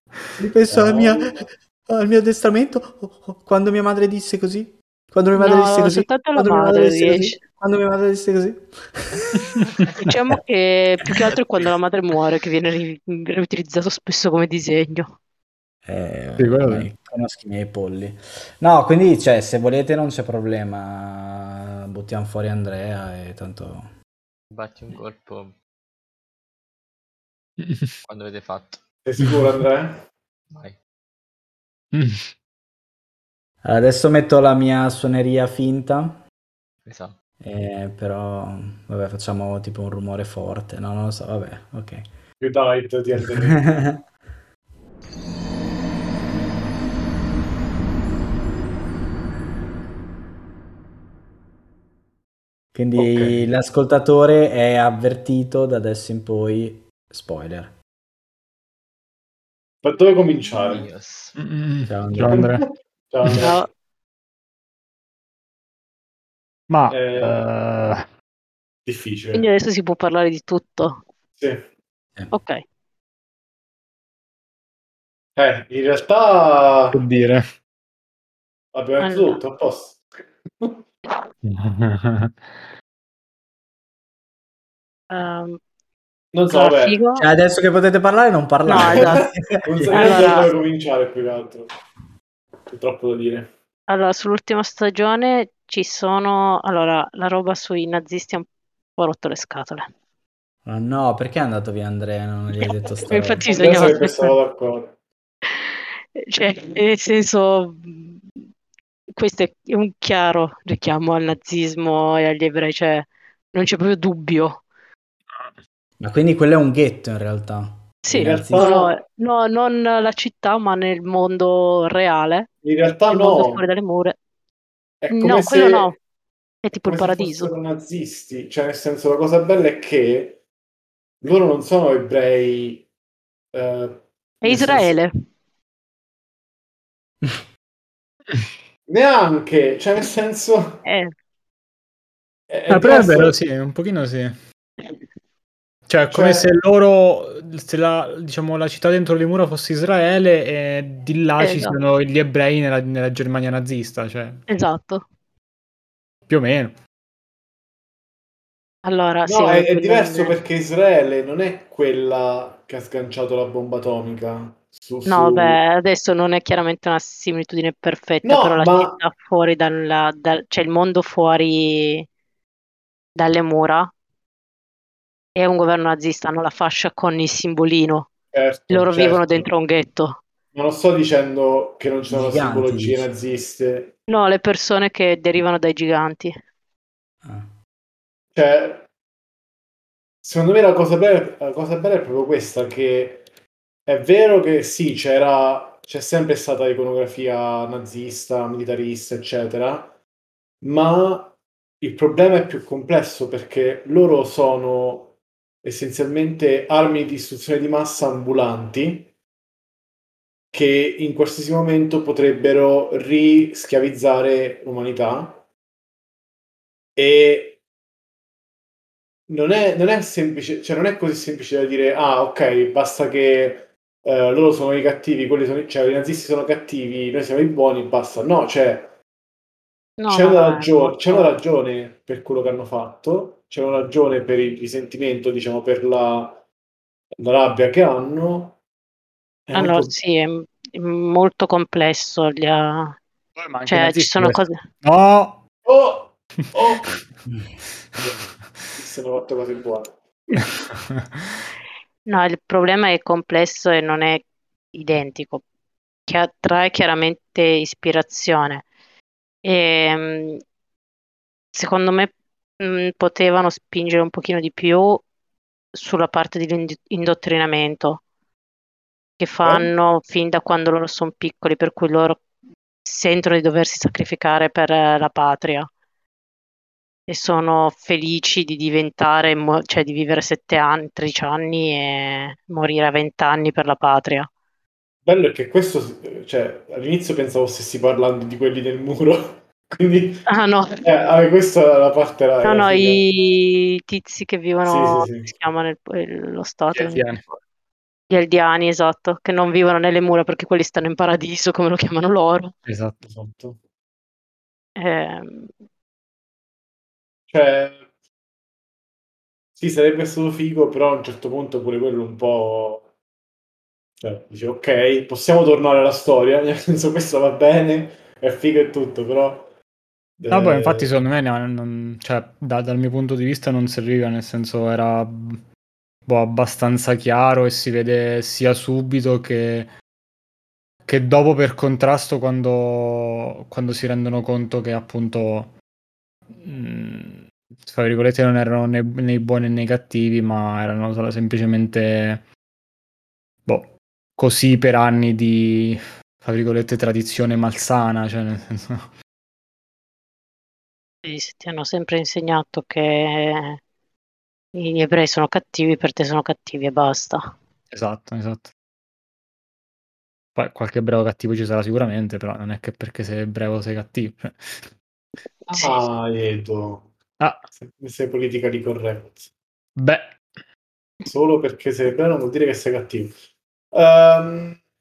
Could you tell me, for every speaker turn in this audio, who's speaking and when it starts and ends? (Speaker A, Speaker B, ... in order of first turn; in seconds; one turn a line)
Speaker A: 0.4-9.4
Speaker B: 0.7-1.4
Speaker C: 5.3-7.4
Speaker D: 9.4-10.1
Speaker C: 9.9-15.1
Speaker A: 15.8-23.9
Speaker D: 16.4-16.9
Speaker E: 24.5-25.6
Speaker D: 27.6-28.0
Speaker E: 28.1-28.8
Speaker B: 29.0-30.1
Speaker E: 30.5-30.8
Speaker D: 31.9-32.3
Speaker A: 33.6-36.2
Speaker E: 36.8-37.1
Speaker A: 37.4-42.1
Speaker B: 42.4-43.6
Speaker A: 43.2-44.0
Speaker A: 52.7-57.7
Speaker B: 52.9-53.4
Speaker B: 59.8-60.9
Speaker E: 60.4-61.4
Speaker D: 61.3-62.6
Speaker A: 61.9-62.5
Speaker B: 62.3-63.7
Speaker C: 63.4-63.7
Speaker D: 66.7-68.0
Speaker B: 66.9-67.4
Speaker B: 68.8-69.5
Speaker C: 69.3-71.0
Speaker B: 71.4-71.6
Speaker C: 72.3-72.6
Speaker B: 75.3-77.0
Speaker D: 76.9-77.4
Speaker B: 78.7-80.0
Speaker C: 79.0-79.4
Speaker D: 81.4-82.5
Speaker C: 85.1-85.6
Speaker B: 86.3-87.0
Speaker C: 86.5-87.2
Speaker A: 87.2-90.5
Speaker C: 88.7-89.2
Speaker B: 88.7-91.7
Speaker C: 89.9-90.5
Speaker B: 92.7-93.5
Speaker C: 93.9-99.8
Speaker A: 100.6-103.5
Speaker C: 102.7-104.3
Speaker B: 103.4-105.0
Speaker C: 105.5-108.2
Speaker C: 109.2-114.6
Speaker D: 115.3-115.6
Speaker A: 116.0-118.7
Speaker C: 118.0-122.5
Speaker B: 118.2-118.9
Speaker B: 122.6-123.6
Speaker C: 123.1-124.2
Speaker B: 125.0-125.9
Speaker C: 125.1-126.0
Speaker C: 126.6-127.5
Speaker B: 126.8-130.4
Speaker B: 131.2-132.8
Speaker B: 133.5-135.0
Speaker C: 134.4-135.1
Speaker B: 138.9-140.8
Speaker C: 140.8-141.1
Speaker B: 142.5-143.3
Speaker D: 142.7-144.4
Speaker D: 145.9-154.4
Speaker B: 146.1-146.5
Speaker C: 151.4-151.8
Speaker C: 154.5-155.0
Speaker D: 156.3-156.8
Speaker C: 158.8-160.4
Speaker B: 159.2-165.6
Speaker C: 165.1-172.1
Speaker B: 168.2-169.0
Speaker C: 173.2-173.9
Speaker C: 175.3-178.1
Speaker B: 178.3-179.5
Speaker C: 178.7-180.2
Speaker B: 180.5-183.9
Speaker A: 182.1-183.1
Speaker C: 184.1-186.3
Speaker A: 187.2-187.5
Speaker B: 188.3-188.9
Speaker B: 190.2-193.3
Speaker B: 193.8-199.9
Speaker B: 200.6-209.1
Speaker B: 210.5-215.4
Speaker B: 216.9-217.6
Speaker B: 219.3-228.9
Speaker C: 230.0-231.3
Speaker B: 230.1-236.4
Speaker B: 237.2-238.6
Speaker B: 239.5-239.9
Speaker C: 239.5-243.0
Speaker D: 243.3-245.4
Speaker C: 243.7-244.6
Speaker B: 245.6-246.9
Speaker D: 246.4-247.0
Speaker D: 248.0-248.7
Speaker B: 248.8-249.9
Speaker D: 250.9-251.2
Speaker C: 252.1-255.4
Speaker C: 256.1-258.6
Speaker C: 259.4-260.4
Speaker C: 261.5-265.0
Speaker C: 265.7-268.0
Speaker C: 269.2-272.2
Speaker B: 269.4-269.7
Speaker C: 272.8-275.7
Speaker C: 277.1-284.3
Speaker B: 285.0-290.2
Speaker C: 290.3-290.8
Speaker B: 290.8-293.0
Speaker C: 292.4-297.0
Speaker B: 294.6-295.3
Speaker D: 296.7-297.4
Speaker C: 298.1-302.5
Speaker D: 302.6-303.0
Speaker B: 303.0-303.6
Speaker C: 304.8-305.5
Speaker B: 307.3-307.8
Speaker B: 309.6-312.9
Speaker B: 314.0-319.5
Speaker B: 320.2-320.9
Speaker D: 320.3-325.4
Speaker D: 326.1-329.7
Speaker D: 330.8-335.5
Speaker D: 336.4-342.2
Speaker D: 343.4-348.9
Speaker C: 351.0-353.6
Speaker C: 354.5-357.2
Speaker D: 357.7-358.5
Speaker D: 360.3-364.7
Speaker B: 365.6-366.9
Speaker D: 367.2-367.7
Speaker B: 367.7-369.3
Speaker D: 369.8-370.2
Speaker B: 371.1-373.2
Speaker B: 373.7-374.6